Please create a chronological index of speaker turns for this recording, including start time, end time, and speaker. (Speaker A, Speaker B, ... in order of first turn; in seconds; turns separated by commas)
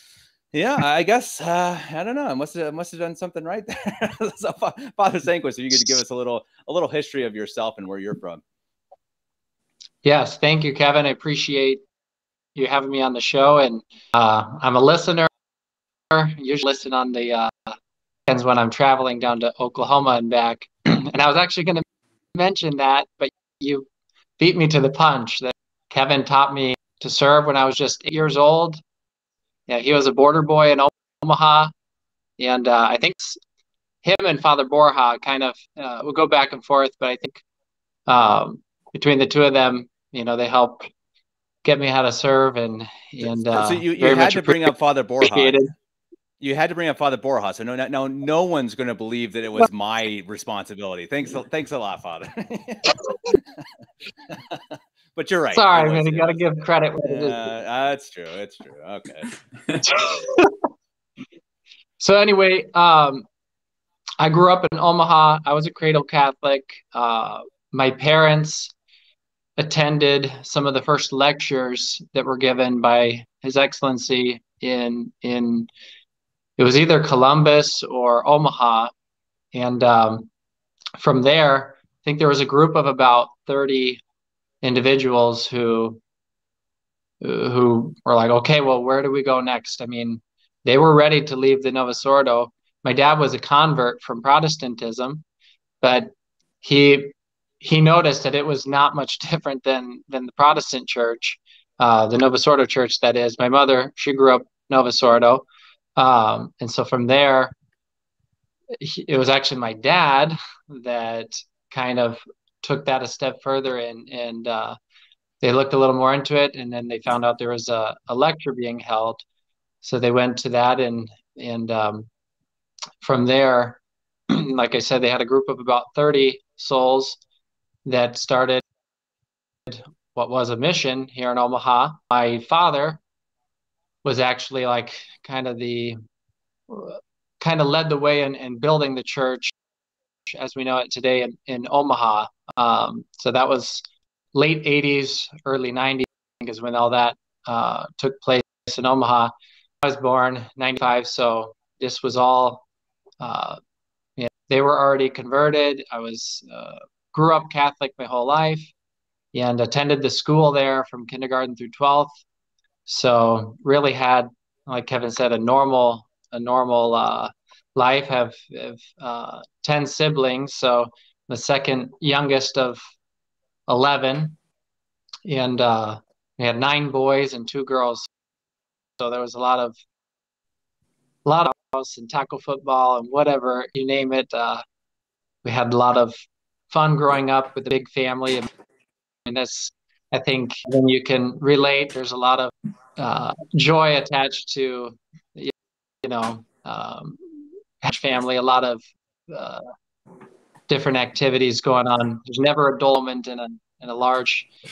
Speaker A: 0.5-8.4, Speaker B: 10.0-11.8, Speaker B: 12.5-15.3, Speaker B: 16.1-17.8, Speaker B: 18.3-23.9, Speaker B: 24.4-28.8, Speaker B: 29.7-31.7, Speaker B: 32.4-33.4, Speaker B: 34.0-37.4, Speaker B: 38.1-40.9, Speaker B: 41.6-44.7, Speaker A: 43.3-45.6, Speaker B: 45.2-45.7, Speaker A: 46.4-53.4, Speaker A: 54.3-56.5, Speaker B: 55.5-57.5, Speaker A: 57.0-59.3, Speaker B: 59.9-60.5, Speaker B: 62.0-63.3, Speaker B: 64.2-68.7, Speaker B: 69.6-75.7, Speaker B: 76.6-78.9, Speaker B: 79.5-80.3, Speaker B: 81.0-84.0, Speaker B: 84.6-86.0, Speaker B: 87.2-95.2, Speaker B: 95.8-96.1, Speaker B: 96.6-107.5, Speaker B: 108.7-114.8, Speaker B: 115.4-119.2, Speaker B: 119.8-122.1, Speaker B: 123.0-127.2, Speaker B: 127.8-128.6, Speaker B: 129.7-133.0, Speaker B: 134.0-136.0, Speaker B: 136.7-139.5, Speaker B: 140.3-152.6, Speaker B: 153.2-153.6, Speaker B: 154.2-158.7, Speaker B: 159.3-162.1, Speaker B: 162.8-172.8, Speaker B: 173.7-174.4, Speaker B: 175.2-178.1, Speaker B: 179.0-179.8, Speaker B: 181.2-184.6, Speaker B: 185.4-188.5, Speaker B: 189.2-199.7, Speaker B: 200.7-204.5